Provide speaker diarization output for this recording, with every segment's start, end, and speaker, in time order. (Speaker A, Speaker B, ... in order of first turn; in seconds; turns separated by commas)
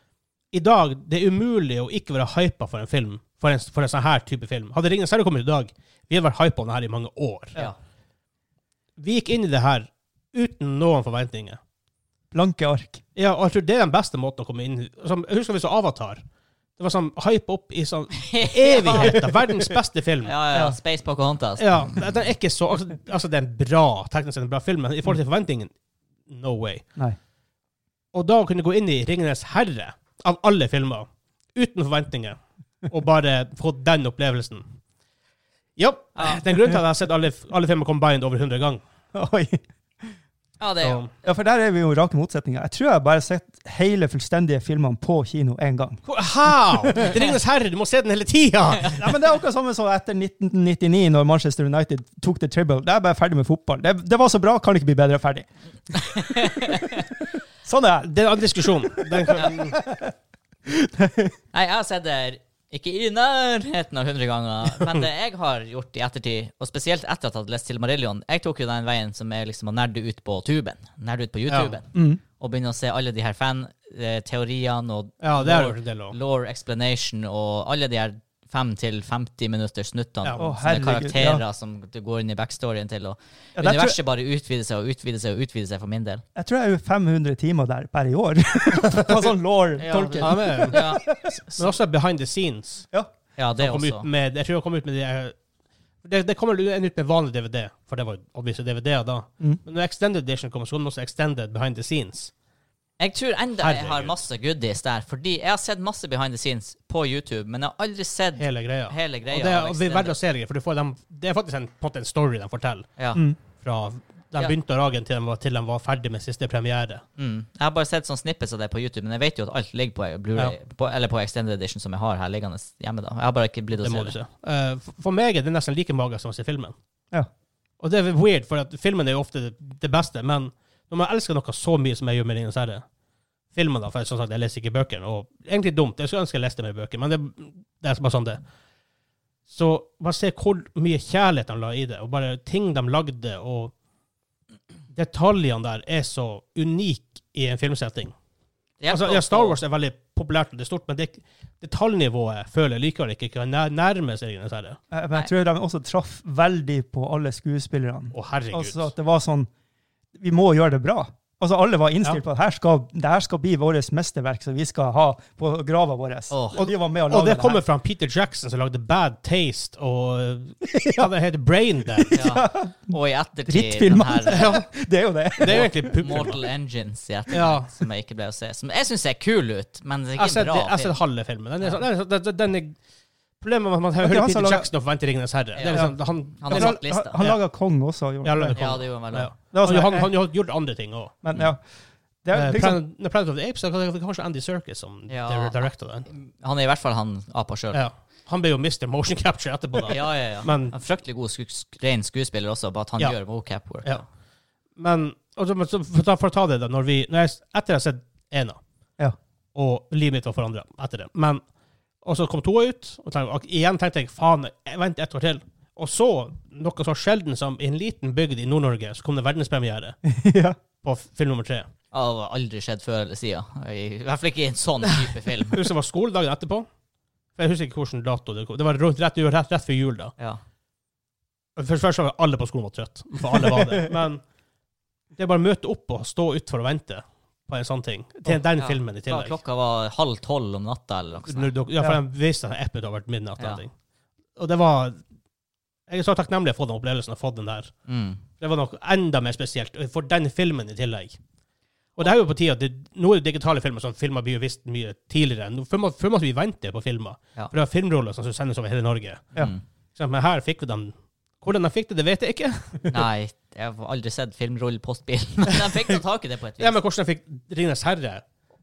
Speaker A: 0.5-7.6, Speaker A: 9.0-11.6, Speaker B: 12.3-13.0, Speaker A: 13.2-16.2, Speaker A: 16.8-20.4, Speaker C: 18.2-19.2, Speaker C: 20.2-21.8, Speaker A: 21.6-25.7, Speaker A: 26.3-26.9, Speaker A: 28.1-34.6, Speaker A: 35.8-38.8, Speaker C: 36.2-36.4, Speaker B: 39.1-39.6, Speaker C: 40.6-41.1, Speaker A: 40.8-41.1, Speaker B: 41.2-46.0, Speaker A: 46.1-49.0, Speaker B: 49.0-58.1, Speaker C: 56.2-57.0, Speaker A: 58.1-59.8, Speaker B: 59.3-60.1, Speaker B: 60.7-61.4, Speaker C: 61.5-86.2, Speaker A: 71.5-71.8, Speaker B: 71.9-72.2, Speaker A: 75.2-76.2, Speaker B: 80.4-81.4, Speaker B: 83.6-84.0, Speaker B: 86.4-91.3, Speaker A: 88.9-89.3, Speaker C: 89.8-91.8, Speaker A: 90.2-91.0, Speaker A: 91.6-92.9, Speaker C: 93.4-94.1, Speaker A: 93.6-95.4, Speaker A: 96.0-102.3, Speaker C: 103.0-110.2, Speaker A: 103.6-104.2, Speaker A: 108.4-112.9, Speaker C: 113.0-113.2, Speaker A: 113.6-117.0, Speaker C: 117.2-124.2, Speaker A: 123.8-126.8, Speaker A: 127.8-132.8, Speaker A: 133.5-138.4, Speaker A: 139.5-143.7, Speaker A: 144.9-148.2, Speaker C: 148.8-149.6, Speaker A: 148.9-154.8, Speaker B: 154.9-159.5, Speaker A: 158.1-158.9, Speaker B: 160.2-167.6, Speaker C: 166.3-166.6, Speaker A: 166.6-172.2, Speaker B: 170.8-171.1, Speaker B: 172.0-176.3, Speaker C: 172.1-174.6, Speaker A: 174.3-174.6, Speaker A: 175.4-176.4, Speaker C: 175.5-181.0, Speaker A: 177.3-177.7, Speaker A: 180.2-182.8, Speaker A: 183.4-187.4, Speaker B: 184.0-184.7, Speaker C: 185.6-187.2, Speaker B: 185.7-188.8, Speaker A: 188.2-191.1, Speaker C: 188.6-189.3, Speaker B: 189.5-190.1, Speaker B: 191.2-191.6, Speaker B: 192.2-192.8, Speaker A: 192.3-196.1, Speaker C: 195.1-197.8, Speaker A: 197.7-200.8, Speaker C: 199.9-204.0, Speaker A: 204.8-208.6, Speaker A: 209.5-211.4, Speaker A: 212.0-220.0, Speaker B: 220.1-220.6, Speaker A: 220.8-221.7, Speaker C: 221.9-225.6, Speaker A: 225.5-226.7, Speaker A: 227.3-230.1, Speaker A: 231.6-234.2, Speaker B: 233.3-233.6, Speaker A: 235.1-239.4, Speaker C: 238.6-241.6, Speaker A: 241.3-243.7, Speaker C: 243.4-243.6, Speaker A: 244.4-245.0, Speaker A: 245.9-247.7, Speaker C: 247.9-248.2, Speaker A: 248.4-251.2, Speaker A: 252.0-259.3, Speaker C: 259.4-259.6, Speaker A: 259.9-262.9, Speaker C: 262.9-266.8, Speaker A: 266.6-268.2